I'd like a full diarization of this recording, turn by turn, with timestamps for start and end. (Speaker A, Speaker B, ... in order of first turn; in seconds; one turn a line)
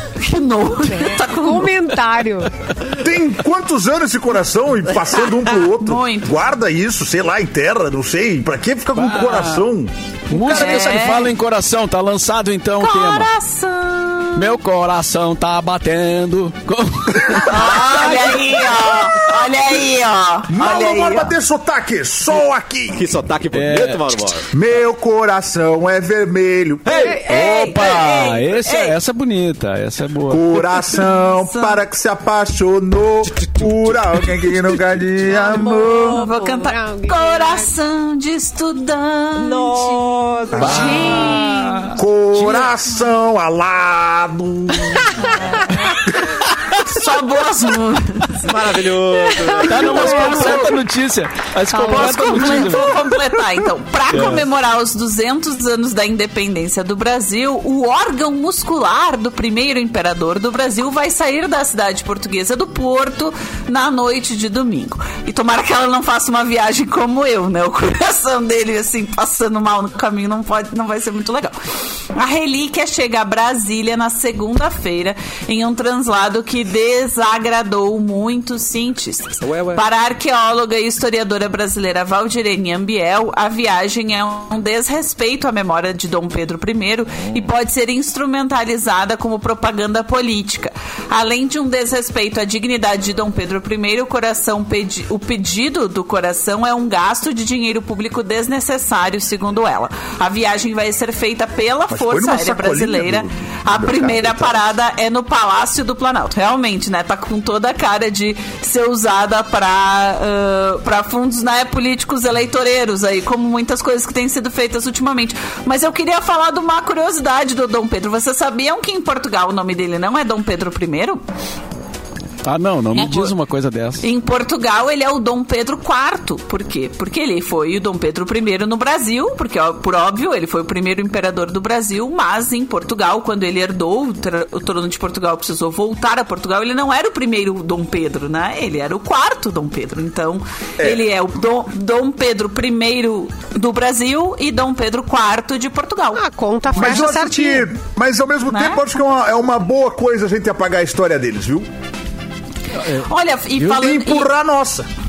Speaker A: 0.2-1.7
Speaker B: 0.8-2.5
Speaker C: 2.9-11.0
Speaker A: 5.8-6.5
Speaker D: 8.9-9.7
Speaker D: 10.3-13.3
Speaker A: 10.4-11.3
Speaker A: 12.8-14.6
Speaker D: 14.3-17.5
Speaker A: 17.5-21.3
Speaker E: 17.8-18.4
Speaker C: 20.5-23.1
Speaker E: 23.0-24.5
Speaker D: 23.5-24.1
Speaker C: 24.5-27.7
Speaker E: 26.9-27.2
Speaker A: 27.0-28.9
Speaker B: 27.0-27.5
Speaker D: 27.3-30.6
Speaker C: 30.3-36.2
Speaker A: 30.9-31.8
Speaker B: 35.3-37.7
Speaker A: 35.6-40.0
Speaker E: 39.4-41.3
Speaker C: 40.5-41.0
Speaker D: 40.6-42.0
Speaker A: 40.6-41.5
Speaker B: 40.6-41.8
Speaker C: 41.9-45.3
Speaker A: 45.3-46.2
Speaker A: 46.7-48.5
Speaker E: 48.4-50.6
Speaker B: 49.3-50.6
Speaker A: 49.5-50.8
Speaker D: 49.6-53.1
Speaker A: 51.7-71.6
Speaker B: 51.8-52.5
Speaker D: 54.1-54.4
Speaker A: 72.1-121.2
Speaker E: 79.4-79.9
Speaker E: 87.2-87.5
Speaker C: 101.9-104.6
Speaker D: 122.5-124.0
Speaker A: 123.0-123.3
Speaker A: 124.0-146.2
Speaker C: 140.8-141.1
Speaker B: 146.2-147.7
Speaker C: 146.7-151.7
Speaker A: 148.5-148.8
Speaker D: 152.8-153.1
Speaker A: 153.0-154.3
Speaker C: 153.6-154.9